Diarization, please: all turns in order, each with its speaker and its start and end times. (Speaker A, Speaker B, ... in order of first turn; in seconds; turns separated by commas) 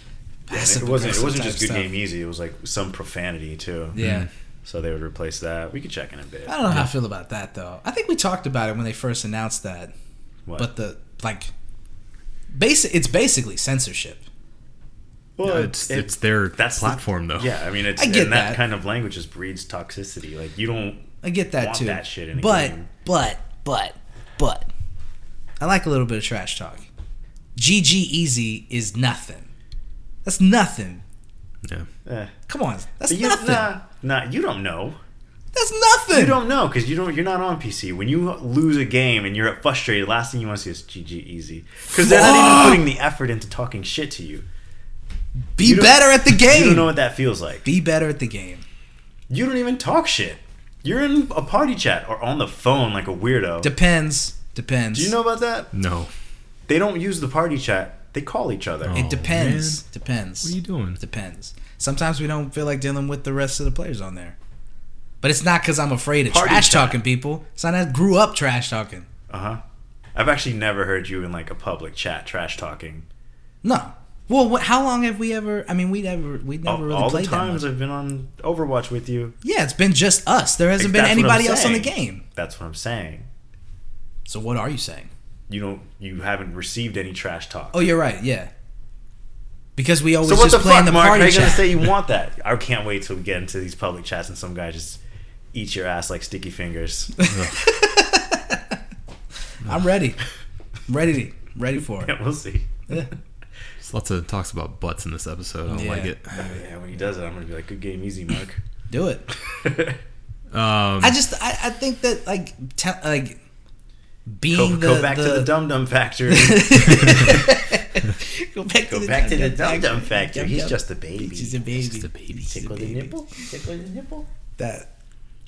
Speaker A: 0.5-1.9, Speaker B: 0.5-4.0, Speaker A: 3.9-4.3, Speaker C: 4.0-4.3, Speaker B: 4.6-6.6, Speaker A: 6.5-9.9, Speaker A: 10.6-11.5, Speaker A: 12.5-14.2, Speaker B: 15.4-22.9, Speaker C: 15.4-17.5, Speaker A: 18.0-18.6, Speaker A: 21.2-24.7, Speaker A: 25.6-26.9, Speaker A: 27.6-29.5, Speaker A: 30.2-31.0, Speaker B: 32.0-32.3, Speaker A: 32.5-33.7, Speaker B: 33.1-35.0, Speaker A: 35.5-36.4, Speaker B: 36.1-44.5, Speaker A: 42.0-42.8, Speaker A: 45.5-47.0, Speaker B: 45.6-47.7, Speaker A: 47.6-48.6, Speaker B: 49.3-53.7, Speaker A: 53.6-55.1, Speaker B: 54.9-55.7, Speaker C: 55.7-56.1, Speaker B: 56.7-59.0, Speaker C: 58.9-59.8, Speaker A: 59.0-64.3, Speaker C: 60.4-61.0, Speaker A: 65.2-69.1, Speaker B: 66.3-67.0, Speaker B: 69.3-69.6, Speaker B: 70.2-73.1, Speaker A: 73.6-77.7, Speaker B: 76.7-79.4, Speaker A: 79.4-82.2, Speaker B: 80.8-83.3, Speaker A: 84.3-85.1, Speaker B: 85.5-87.9, Speaker A: 87.7-88.5, Speaker A: 89.8-91.8, Speaker B: 90.2-95.0, Speaker B: 95.5-97.1, Speaker A: 97.2-98.8, Speaker C: 97.3-97.6, Speaker A: 99.7-100.2, Speaker A: 100.9-102.1, Speaker B: 102.0-102.9, Speaker C: 103.8-106.4, Speaker A: 105.7-106.1, Speaker B: 106.3-108.6, Speaker A: 108.9-109.2, Speaker B: 109.3-110.0, Speaker C: 110.5-111.2, Speaker A: 111.0-113.4, Speaker A: 114.3-115.5, Speaker B: 114.5-117.4, Speaker A: 116.3-123.1, Speaker B: 118.9-121.6, Speaker C: 121.8-122.4, Speaker B: 122.5-124.3, Speaker A: 124.6-124.9